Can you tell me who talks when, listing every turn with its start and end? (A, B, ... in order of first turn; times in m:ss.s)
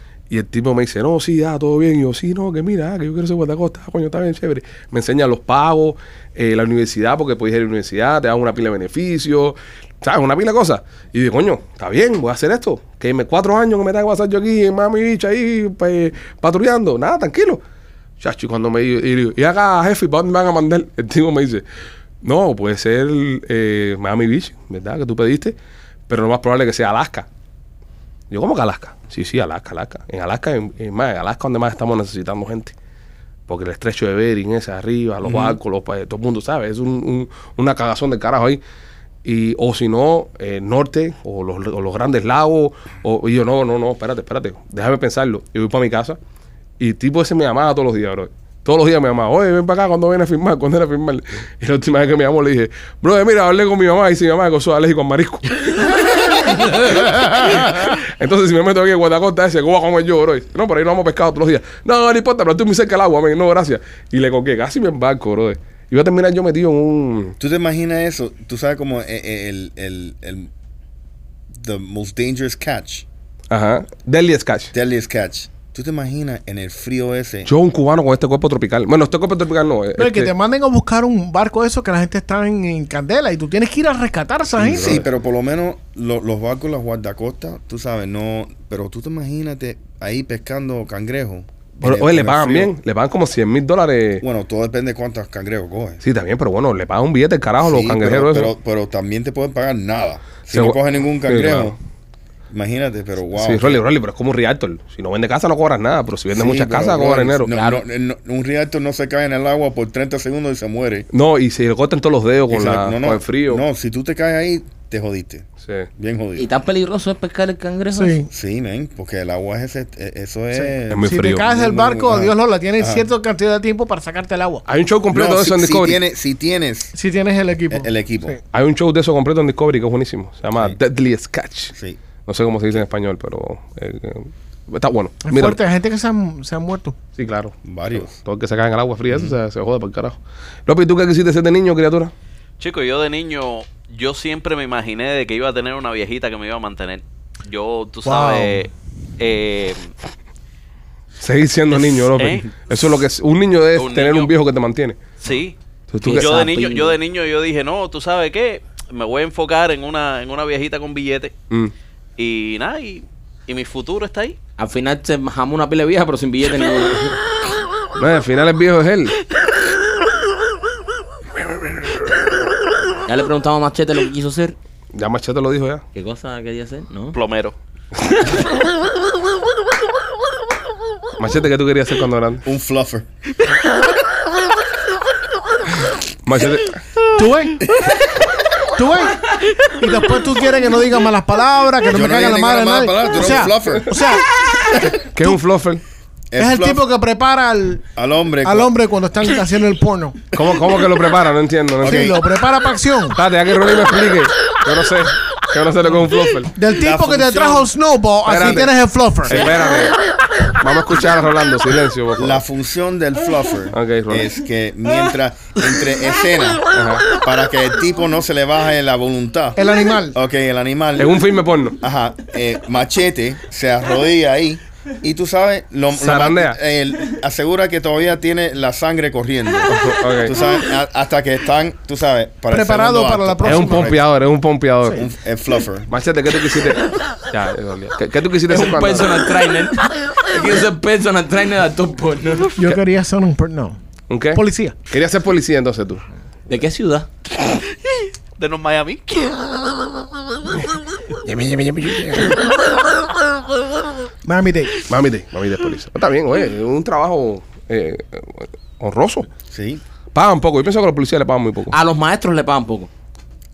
0:00.3-0:17.6 A
0:18.2-0:21.6 A
0:22.2-0:25.5 A
0:26.1-0:27.2 A
0:28.3-0:32.7 A
0:33.5-0:38.6 A
0:35.2-0:35.6 B
0:39.2-0:46.2 A
0:46.8-1:07.4 A
1:07.4-1:10.5 B
1:11.5-1:13.0 B
1:13.5-1:14.7 A
1:14.7-1:17.5 B
1:17.5-1:20.3 A
1:20.0-1:25.0 C
1:24.6-1:32.7 B
1:24.6-1:25.0 A
1:31.8-1:34.2 A
1:34.2-1:36.0 B
1:36.0-1:38.5 A
1:37.6-1:41.8 B
1:40.5-1:41.8 A
1:42.5-1:43.8 B
1:43.4-1:47.5 A
1:46.3-1:51.1 B
1:47.5-1:47.8 D
1:51.1-1:53.6 A
1:52.5-1:56.5 B
1:56.4-1:58.2 D
1:57.9-1:58.3 C
1:58.3-2:03.1 B
2:00.5-2:04.6 C
2:00.9-2:01.4 A
2:04.6-2:06.0 A
2:05.1-2:06.9 B
2:06.9-2:08.4 C
2:07.7-2:08.4 B
2:08.5-2:11.7 A
2:11.7-2:12.0 B
2:12.2-2:15.6 A
2:15.2-2:17.0 C
2:17.2-2:22.1 A
2:17.6-2:18.2 B
2:19.1-2:19.4 B
2:22.6-2:29.9 E
2:28.0-2:28.6 C
2:31.2-2:35.0 A
2:31.7-2:32.5 E
2:33.8-2:34.3 E
2:35.2-2:35.6 E
2:35.9-2:36.4 A
2:36.0-2:37.0 D
2:36.1-2:41.3 E
2:42.2-2:44.4 E
2:44.6-2:47.2 D
2:48.0-2:49.2 A
2:53.0-2:54.6 D
2:54.9-2:55.8 A
2:55.9-2:57.2 D
2:57.1-2:57.5 E
3:01.2-3:02.4 A
3:02.4-3:03.1 B
3:06.2-3:06.8 A
3:07.2-3:07.8 C
3:08.7-3:15.4 C
3:11.9-3:14.0 B
3:15.0-3:15.8 A
3:16.3-3:16.8 B
3:16.4-3:17.8 C
3:17.9-3:18.7 B
3:18.4-3:20.2 C
3:20.3-3:22.1 A
3:21.8-3:22.2 B
3:21.8-3:23.2 C
3:23.1-3:26.5 A
3:26.5-3:29.5 C
3:26.7-3:27.7 B
3:28.2-3:28.7 A
3:29.2-3:30.0 A
3:30.5-3:32.4 A
3:32.2-3:36.6 B
3:33.7-3:34.3 A
3:36.7-3:37.1 A
3:37.2-3:41.2 B
3:39.6-3:40.2 C
3:41.0-3:41.8 A
3:41.8-3:54.0 B
3:46.0-3:46.6 A
3:49.7-3:50.3 A
3:52.5-3:54.0 C
3:53.4-3:55.1 A
3:54.9-3:55.9 B
3:55.9-3:59.2 A
3:58.5-4:02.6 D
4:02.6-4:03.8 C
4:04.1-4:06.0 A
4:04.3-4:04.7 C
4:06.5-4:07.1 D
4:08.4-4:10.6 E
4:11.2-4:12.4 A
4:14.2-4:14.8 C
4:14.8-4:19.3 A
4:19.5-4:19.8 B
4:20.1-4:21.7 A
4:21.7-4:22.9 D